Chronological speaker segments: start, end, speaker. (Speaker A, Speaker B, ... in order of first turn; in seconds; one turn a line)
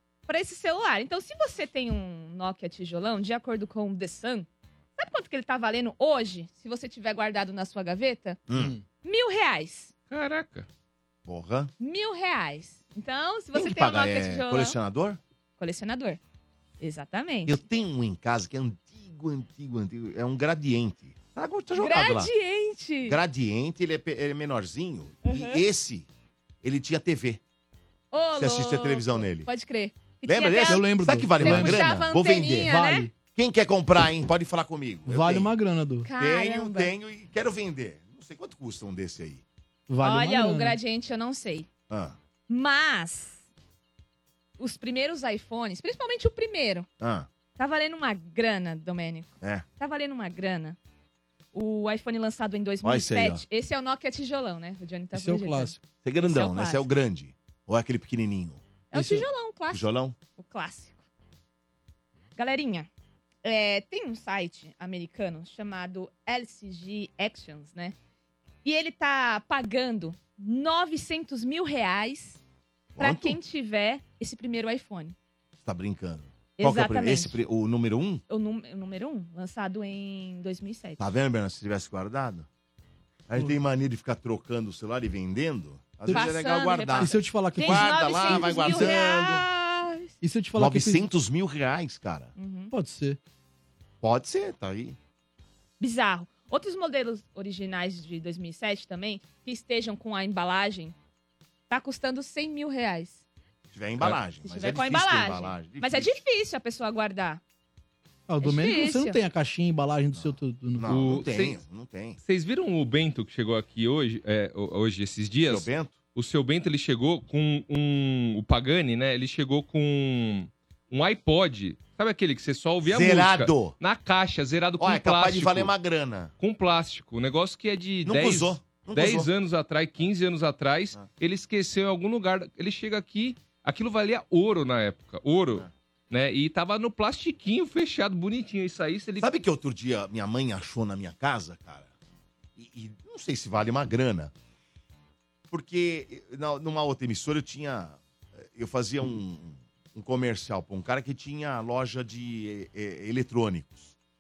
Speaker A: 0.3-8.4
Speaker B: 8.5-8.8
Speaker C: 8.5-8.8
Speaker A: 9.0-9.9
Speaker D: 10.1-10.7
Speaker B: 11.2-11.7
Speaker A: 11.8-14.8
Speaker B: 13.5-15.2
Speaker A: 15.6-16.2
Speaker A: 16.8-17.6
Speaker B: 17.5-22.3
Speaker A: 21.8-23.2
Speaker B: 23.1-26.1
Speaker A: 25.2-25.6
Speaker B: 26.6-27.4
Speaker A: 28.1-33.1
Speaker B: 28.4-29.5
Speaker B: 30.2-32.8
Speaker C: 30.7-31.9
Speaker C: 32.6-33.1
Speaker B: 33.4-35.5
Speaker C: 35.1-36.1
Speaker A: 36.1-36.9
Speaker B: 36.1-39.4
Speaker C: 39.9-40.8
Speaker A: 40.0-41.7
Speaker B: 41.9-42.2
Speaker A: 42.5-43.4
Speaker A: 44.6-46.9
Speaker B: 47.0-47.3
Speaker A: 47.6-50.8
Speaker A: 51.5-56.9
Speaker B: 52.8-53.4
Speaker C: 55.1-55.8
Speaker B: 56.0-58.6
Speaker A: 58.9-59.9
Speaker C: 58.9-59.3
Speaker B: 59.7-60.2
Speaker A: 60.4-61.0
Speaker A: 62.4-62.9
Speaker A: 63.4-68.0
Speaker A: 68.6-72.4
Speaker B: 73.0-73.4
Speaker A: 73.0-75.2
Speaker B: 75.6-78.2
Speaker A: 76.6-77.4
Speaker A: 78.3-81.0
Speaker B: 81.0-82.5
Speaker B: 83.3-89.5
Speaker A: 86.0-90.1
Speaker C: 87.0-89.0
Speaker C: 90.2-91.1
Speaker B: 90.6-92.3
Speaker A: 92.4-92.7
Speaker C: 92.7-93.2
Speaker B: 94.0-95.0
Speaker A: 95.8-101.0
Speaker A: 101.7-103.2
Speaker B: 103.7-106.2
Speaker A: 104.4-107.4
Speaker C: 108.3-110.9
Speaker A: 108.4-109.2
Speaker B: 110.1-112.2
Speaker D: 110.9-111.6
Speaker D: 112.2-125.7
Speaker B: 115.5-116.0
Speaker B: 122.8-123.8
Speaker B: 124.8-126.3
Speaker D: 126.4-139.3
Speaker B: 128.1-129.3
Speaker B: 139.2-141.9
Speaker B: 142.6-144.3
Speaker B: 145.5-153.9